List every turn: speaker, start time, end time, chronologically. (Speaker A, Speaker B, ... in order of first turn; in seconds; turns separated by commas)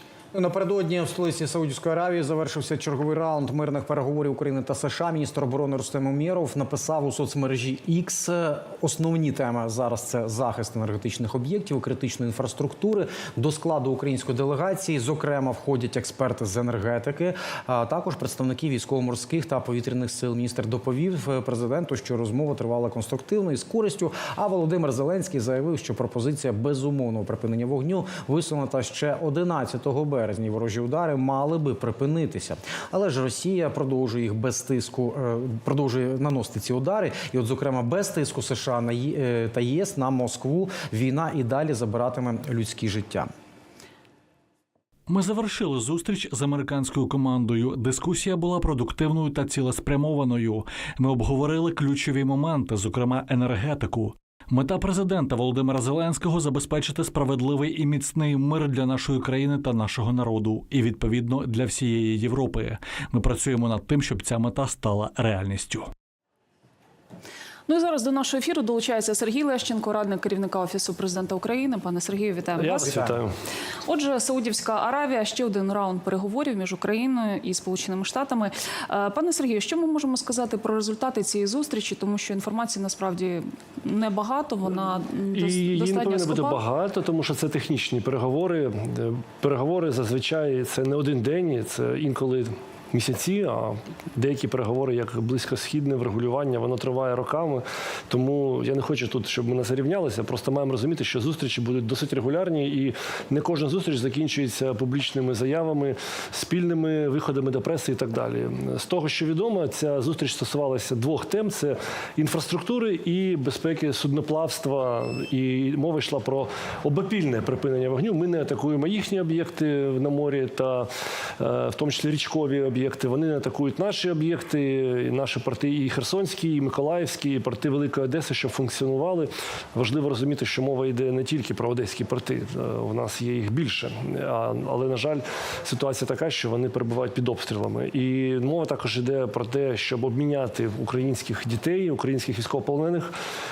Speaker A: 0.3-43.3, Speaker B: 45.1-65.9, Speaker C: 67.7-73.0, Speaker D: 72.6-73.3, Speaker A: 72.8-73.1, Speaker C: 73.9-86.6, Speaker D: 85.3-143.1